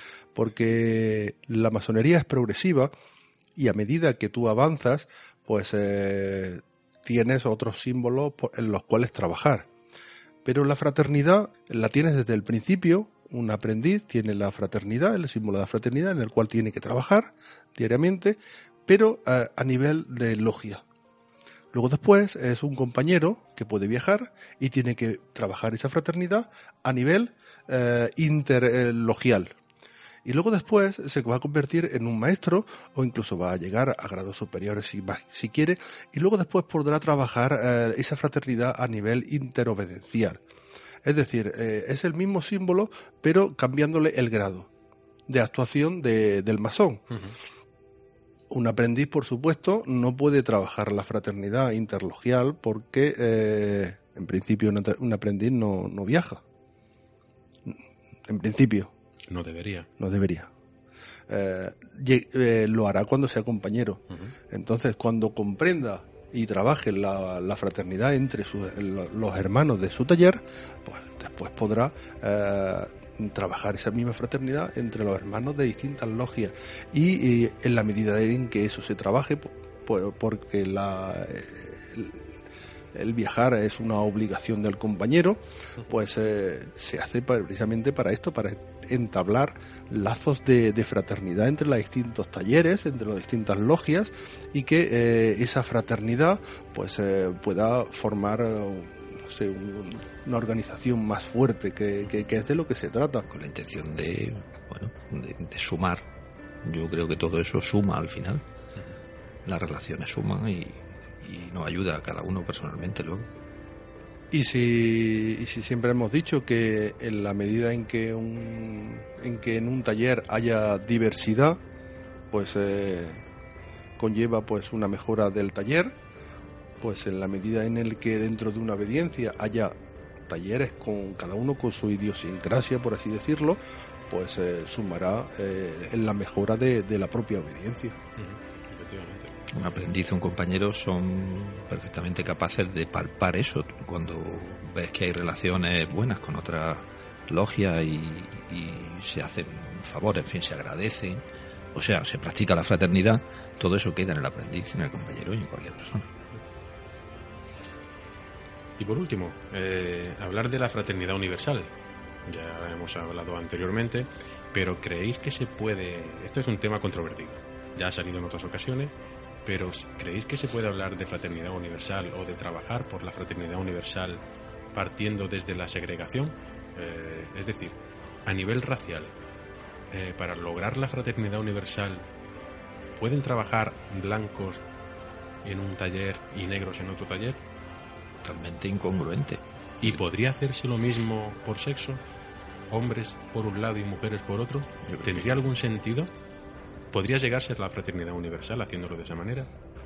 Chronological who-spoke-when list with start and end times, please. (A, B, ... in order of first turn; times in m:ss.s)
0:00.4-0:02.9 A
0:03.6-0:09.7 A
0:10.4-0:20.8 A
0:21.7-0:29.6 A
0:30.2-0:40.4 A
0:41.0-0:44.7 A
0:45.3-0:47.0 A
0:48.5-0:56.4 A
0:57.7-0:58.9 A
0:59.3-0:59.9 B
1:00.0-1:00.5 A
1:01.3-1:22.3 A
1:22.9-1:43.3 A
1:43.3-1:46.1 C
1:46.6-1:48.4 C
1:49.4-1:53.3 C
1:54.3-2:01.6 A
2:02.3-2:03.2 A
2:04.0-2:06.0 A
2:06.8-2:09.8 A
2:10.3-2:18.0 A
2:18.2-2:19.6 B
2:19.5-2:36.1 C
2:38.8-2:41.7 B
2:42.2-2:48.9 B
2:49.4-2:59.2 B
2:59.9-3:02.1 B
3:03.0-3:04.6 B
3:05.4-3:07.4 B
3:08.2-3:10.0 C
3:09.8-3:12.0 B
3:12.7-3:16.1 B
3:14.8-3:15.5 C
3:16.9-3:19.5 B